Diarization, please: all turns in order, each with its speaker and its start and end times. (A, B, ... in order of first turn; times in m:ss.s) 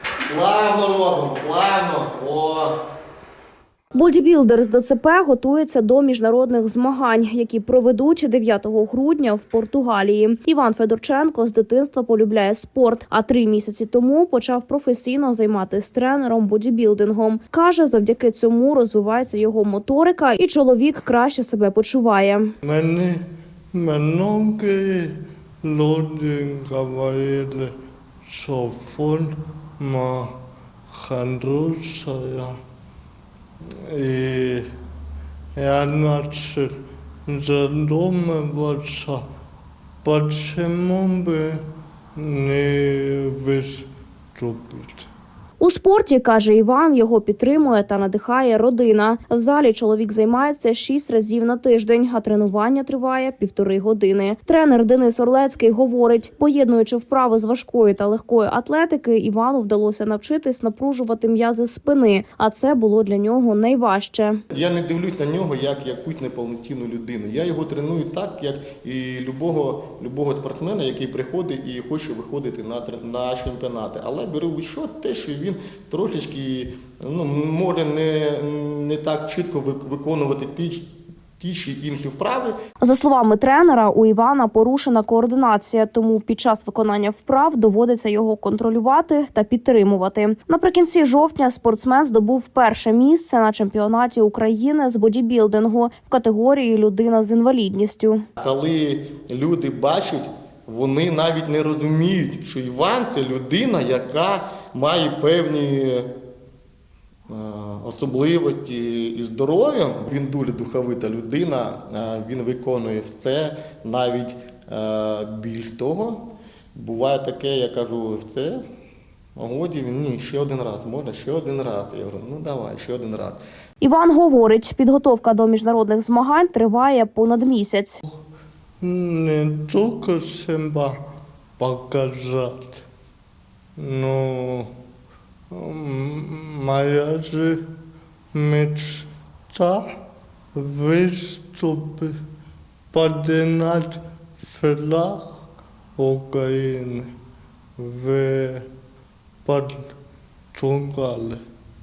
0:00.3-0:02.8 A
0:03.9-0:22.5 B
0:22.6-0:27.8 C
0:28.3-0:30.4 C
0:30.9-0:32.6 C
0:33.6-0:34.7 C
0:35.6-0:36.8 C
0:37.3-0:39.2 C
0:40.0-0:41.6 C
0:42.2-0:45.1 C
0:45.6-1:04.4 B
1:04.5-1:20.9 A
1:21.4-1:22.6 A
1:22.8-1:38.2 B
1:38.4-1:46.1 A
1:47.3-1:56.2 A
1:56.8-1:58.6 A
1:59.4-2:03.4 A
2:03.8-2:08.0 B
2:08.8-2:11.0 C
2:11.6-2:12.8 C
2:13.8-2:14.7 C
2:15.5-2:17.7 C
2:18.3-2:20.0 C
2:20.6-2:22.2 C
2:22.9-2:25.4 C
2:26.0-2:27.1 C
2:27.8-2:28.7 C
2:29.4-2:29.9 C
2:30.5-2:31.4 C